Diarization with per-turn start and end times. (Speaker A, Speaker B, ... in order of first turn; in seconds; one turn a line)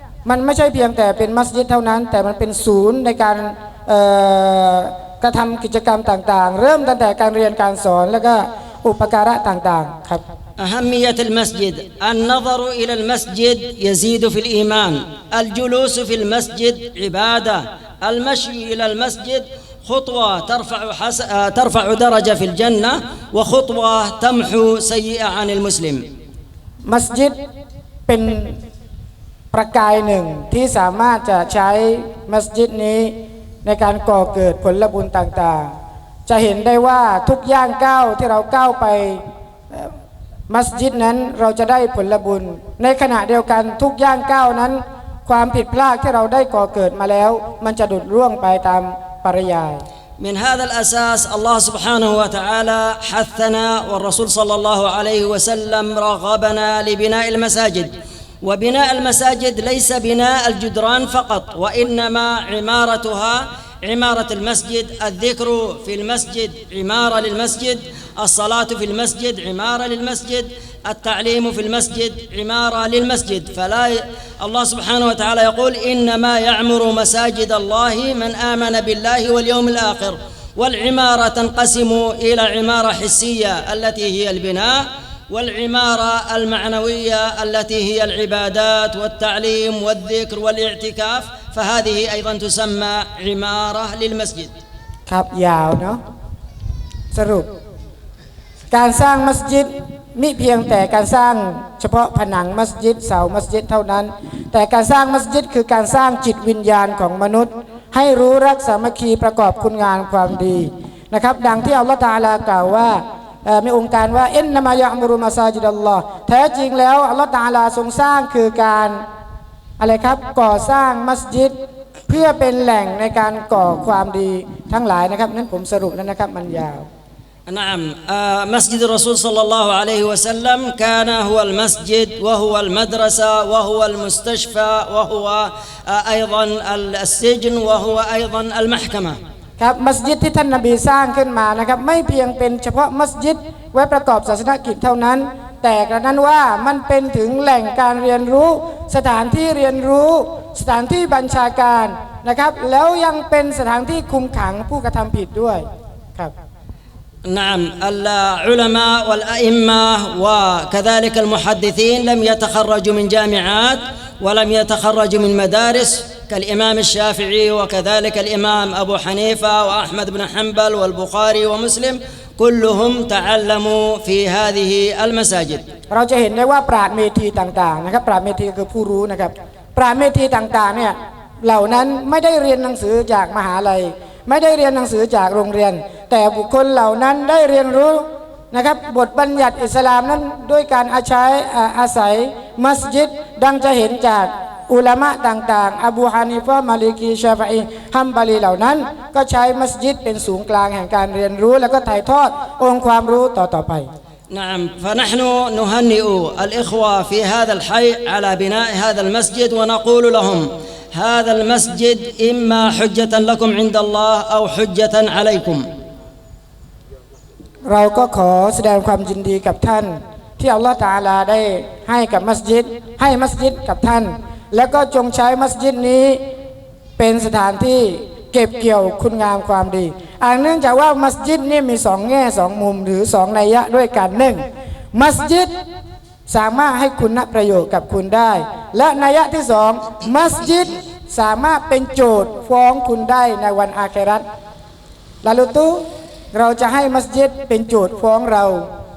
Speaker A: 0.2-10.2
Speaker B: 10.6-26.0
Speaker A: 26.9-27.3
Speaker A: 28.1-28.6
Speaker A: 29.5-35.7
Speaker A: 36.2-39.9
Speaker A: 40.5-49.8
Speaker B: 50.2-57.9
Speaker B: 58.4-94.5
Speaker A: 95.1-96.0
Speaker A: 97.1-97.5
Speaker A: 98.7-119.0
Speaker A: 119.8-121.5
Speaker A: 122.1-126.8
Speaker B: 127.5-139.2
Speaker A: 139.6-155.6
Speaker B: 157.2-175.6
Speaker A: 175.9-203.9
Speaker B: 204.3-215.6
Speaker A: 217.7-226.2
Speaker A: 227.0-234.4
Speaker A: 234.9-235.5
Speaker A: 236.3-244.2
Speaker A: 245.2-248.7